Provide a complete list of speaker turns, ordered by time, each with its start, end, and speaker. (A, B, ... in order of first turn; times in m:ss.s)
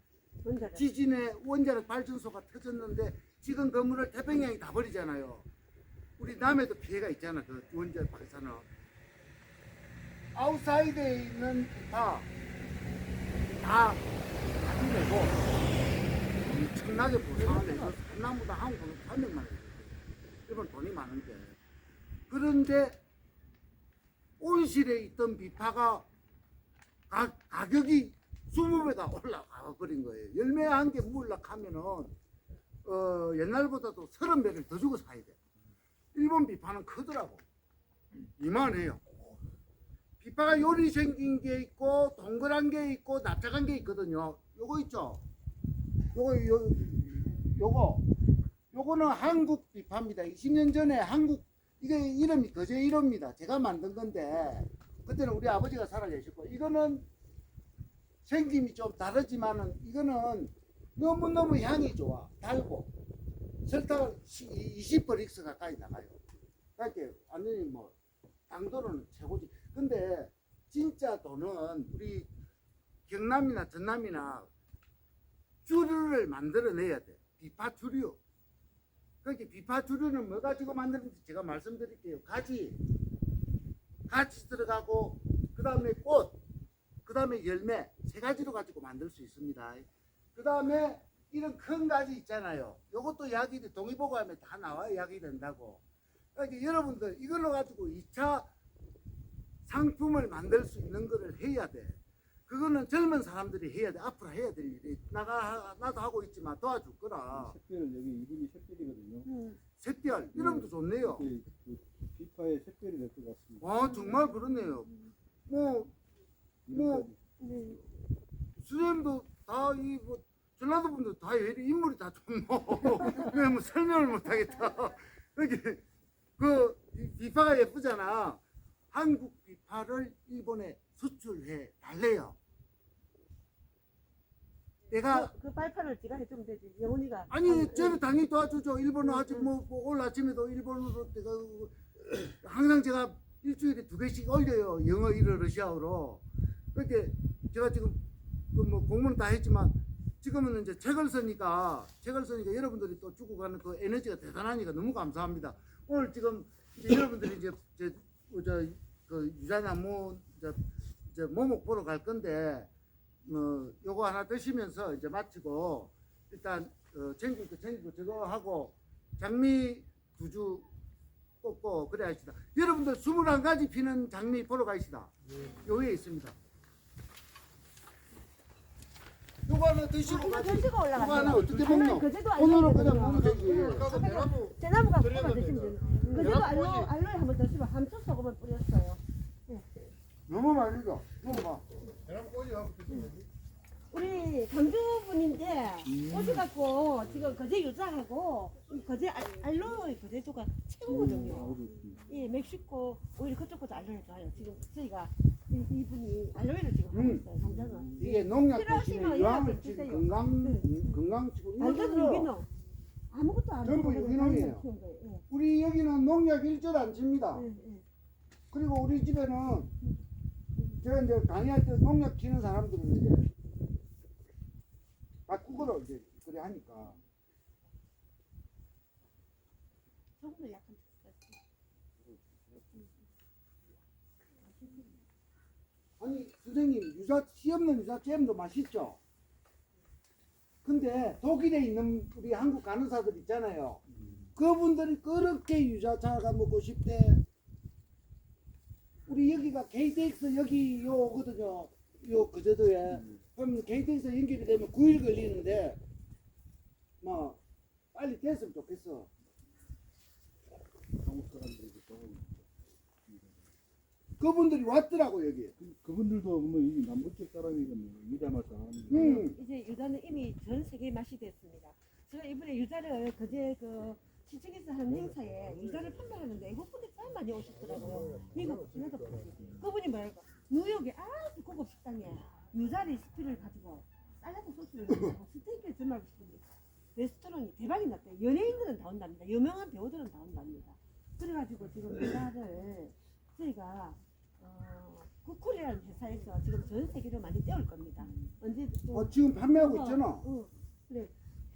0:00.4-0:00.9 A
0:00.8-0:05.5 B
0:06.2-0:08.6 B
0:10.3-0:12.3 B
0:13.6-0:14.1 B
0:14.6-0:15.5 B
0:16.4-0:21.6 B
0:17.3-0:18.0 A
0:22.3-0:23.0 B
0:24.4-0:26.1 B
0:27.1-0:32.2 B
0:32.8-0:35.4 B
0:36.1-0:37.4 B
0:38.4-0:39.1 B
0:40.2-0:45.2 B
0:46.1-0:48.1 B
0:48.7-0:57.1 B
0:58.2-1:02.9 B
1:03.6-1:06.2 B
1:06.8-1:07.9 B
1:08.5-1:12.3 B
1:13.1-1:14.5 B
1:15.6-1:18.2 B
1:19.2-1:22.8 B
1:24.1-1:26.4 B
1:27.1-1:35.8 B
1:36.4-1:38.5 B
1:39.7-1:47.6 B
1:47.3-1:49.3 C
1:49.3-1:49.6 A
1:49.8-1:51.3 B
1:50.3-1:53.7 C
1:53.6-1:54.9 B
1:53.8-1:55.1 A
1:55.5-1:55.9 B
1:56.7-1:57.2 C
1:56.7-1:57.1 B
1:57.4-1:57.8 A
1:58.6-2:05.8 B
2:06.4-2:12.4 B
2:14.9-2:15.3 B
2:15.1-2:18.0 A
2:17.3-2:26.2 B
2:19.0-2:19.5 A
2:26.7-2:42.7 B
2:43.2-2:50.7 B
2:51.4-2:56.4 B
2:59.5-3:04.1 B
3:00.0-3:09.7 A
3:03.2-3:04.6 D
3:05.1-3:06.9 D
3:10.3-3:11.7 B
3:12.1-3:13.2 D
3:13.9-3:31.0 A
3:15.8-3:16.5 C
3:20.9-3:22.0 C
3:26.9-3:27.3 B
3:27.4-3:28.2 C
3:28.0-3:32.3 B
3:31.6-3:32.5 A
3:33.1-3:35.2 A
3:33.6-3:34.6 B
3:35.3-3:37.4 B
3:37.3-3:37.8 A
3:38.5-3:39.7 B
3:40.8-3:43.3 B
3:45.3-3:47.0 B
3:50.2-3:51.4 A
3:54.6-3:54.9 A
3:56.0-3:59.0 B
4:00.6-4:03.8 B
4:03.9-4:04.3 C
4:04.4-4:07.2 B
4:09.1-4:15.8 B
4:12.9-4:13.2 C
4:17.0-4:17.4 B
4:17.9-4:19.1 B
4:21.0-4:22.4 C
4:23.1-4:23.4 C
4:24.2-4:25.6 B
4:25.6-4:29.3 C
4:28.9-4:29.4 B
4:28.9-4:46.4 A
4:37.8-4:38.6 C
4:37.8-4:39.0 D
4:47.0-5:01.1 A
4:58.0-4:58.3 C
4:58.9-5:00.3 B